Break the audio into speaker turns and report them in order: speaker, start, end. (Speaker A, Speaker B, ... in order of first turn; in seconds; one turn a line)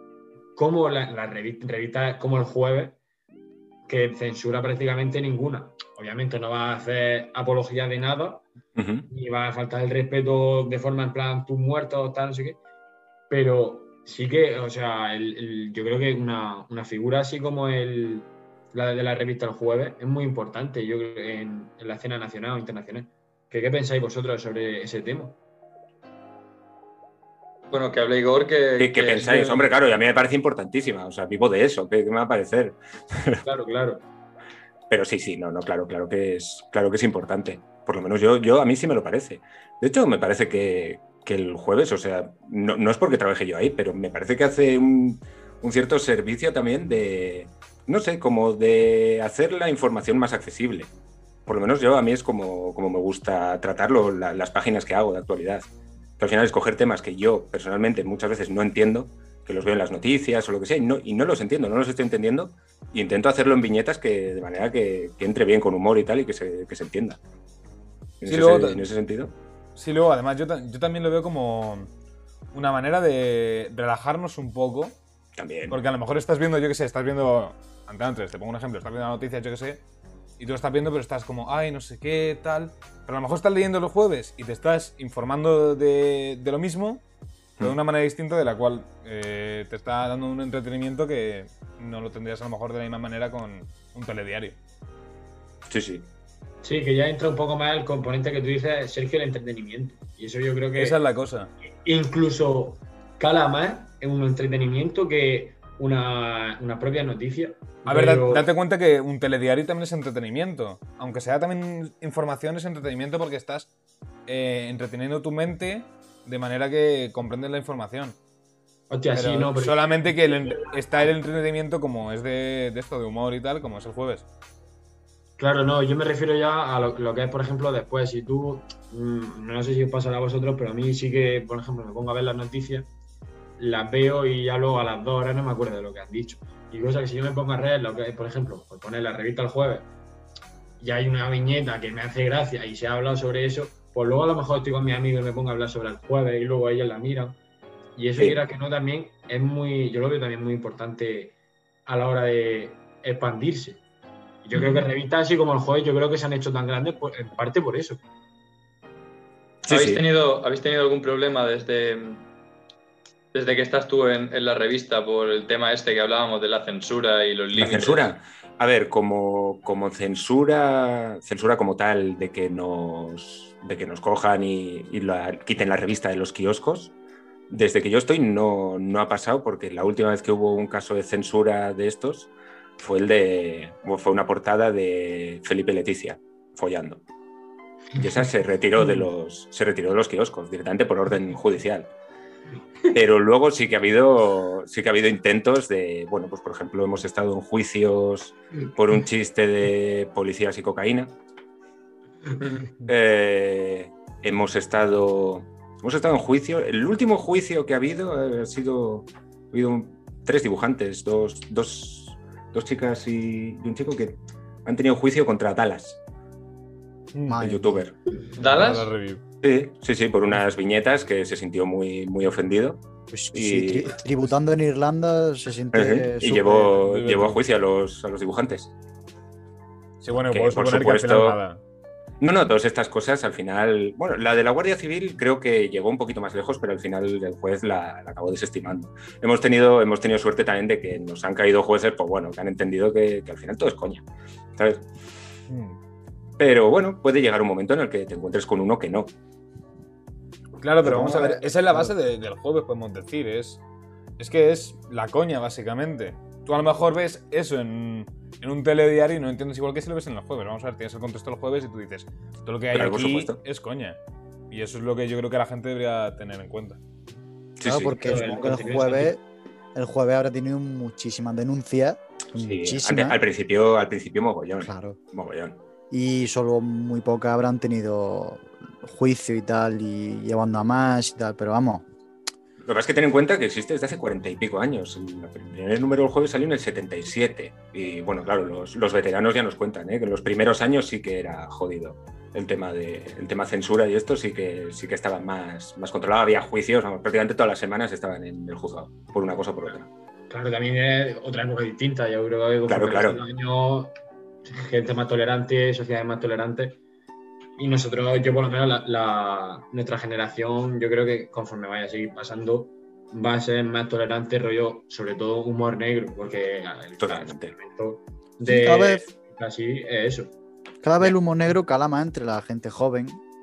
Speaker A: 0.6-3.0
Speaker A: 3.9-8.5
Speaker B: 8.8-9.1
Speaker A: 9.1-12.6
Speaker A: 13.3-25.4
Speaker C: 27.7-29.7
Speaker B: 28.8-33.4
Speaker A: 33.4-34.0
Speaker B: 34.9-50.9
Speaker B: 51.5-67.2
Speaker B: 68.2-69.3
Speaker D: 68.3-68.9
Speaker D: 69.8-71.9
Speaker D: 72.5-75.0
Speaker B: 75.4-75.8
Speaker D: 75.7-79.8
Speaker D: 80.4-87.0
Speaker D: 87.6-94.6
Speaker B: 95.7-96.1
Speaker A: 96.6-101.0
Speaker D: 100.8-101.5
Speaker A: 101.8-108.5
Speaker D: 107.9-113.7
Speaker D: 114.3-118.2
Speaker A: 118.9-121.0
Speaker D: 119.1-124.3
Speaker A: 125.4-132.9
Speaker A: 133.6-139.9
Speaker A: 140.8-147.4
Speaker A: 148.0-151.3
Speaker A: 151.9-153.8
Speaker A: 154.4-158.0
Speaker C: 154.5-154.8
Speaker C: 159.6-162.2
Speaker B: 159.7-160.0
Speaker C: 163.3-168.1
Speaker B: 167.6-176.9
Speaker B: 177.5-187.0
Speaker B: 188.0-191.9
Speaker B: 192.9-201.1
Speaker B: 202.8-216.0
Speaker D: 217.1-217.5
Speaker E: 217.3-217.8
Speaker B: 217.4-217.9
Speaker C: 218.4-218.9
Speaker D: 218.4-219.2
Speaker B: 219.4-222.8
Speaker E: 223.1-226.8
Speaker B: 223.3-224.0
Speaker B: 225.7-228.7
Speaker D: 226.7-227.4
Speaker D: 230.0-231.6
Speaker B: 230.2-231.4
Speaker B: 232.2-244.9
Speaker D: 245.5-245.8
Speaker B: 246.4-249.1
Speaker D: 250.6-253.6
Speaker E: 250.8-251.9
Speaker D: 254.2-264.0
Speaker B: 262.7-263.4
Speaker D: 264.5-266.8
Speaker B: 267.6-268.1
Speaker E: 267.6-269.2
Speaker A: 268.0-269.1
Speaker E: 269.8-273.2
Speaker B: 272.4-275.6
Speaker E: 274.6-275.0
Speaker E: 275.9-281.9
Speaker B: 282.6-299.9
Speaker A: 300.3-303.9
Speaker B: 302.7-303.2
Speaker A: 304.5-306.8
Speaker A: 307.6-320.3
Speaker B: 317.0-317.5
Speaker E: 318.4-319.0
Speaker E: 320.8-323.2